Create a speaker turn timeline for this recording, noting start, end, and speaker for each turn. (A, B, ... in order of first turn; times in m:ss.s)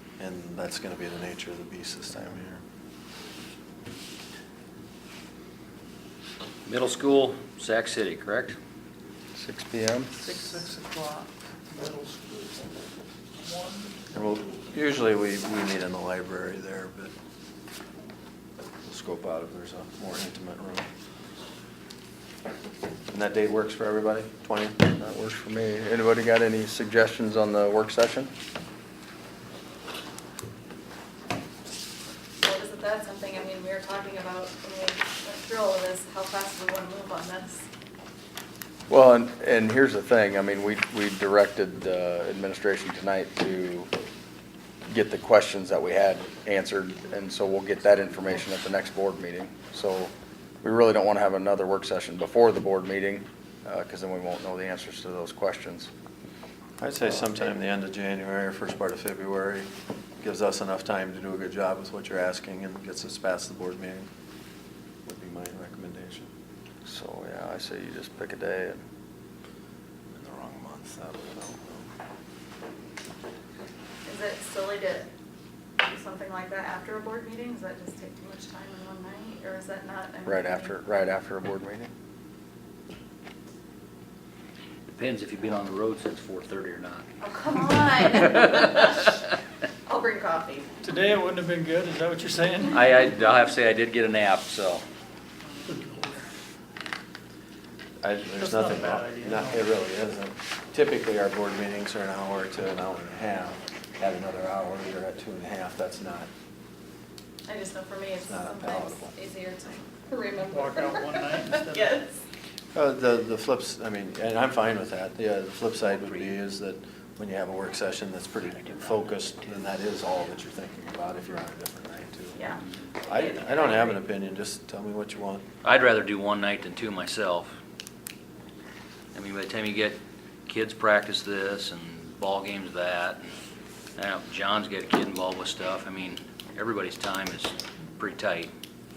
0:00.2-0:02.6 A
0:06.6-0:08.6 B
0:09.3-0:10.1 C
0:10.2-0:12.6 D
0:13.4-0:14.2 D
0:14.1-0:17.1 A
0:18.8-0:20.9 A
0:23.1-0:24.8 A
0:24.9-0:28.3 C
0:32.4-0:37.6 E
0:38.9-0:43.9 C
0:44.9-0:55.9 C
0:56.8-0:59.7 A
1:00.2-1:04.1 A
1:05.0-1:06.3 A
1:06.8-1:08.8 C
1:10.1-1:11.9 A
1:14.0-1:15.1 E
1:15.8-1:20.8 E
1:20.2-1:21.9 C
1:24.9-1:27.0 B
1:27.2-1:29.1 E
1:29.8-1:30.7 E
1:30.8-1:32.9 D
1:32.7-1:34.8 B
1:35.6-1:36.0 D
1:38.0-1:46.3 A
1:38.3-1:39.7 D
1:47.4-1:52.2 E
1:48.2-1:49.1 A
1:50.4-1:52.0 D
1:52.7-2:02.4 A
2:02.3-2:04.0 E
2:03.0-2:05.4 A
2:05.6-2:07.5 B
2:09.1-2:13.2 B
2:14.0-2:18.5 B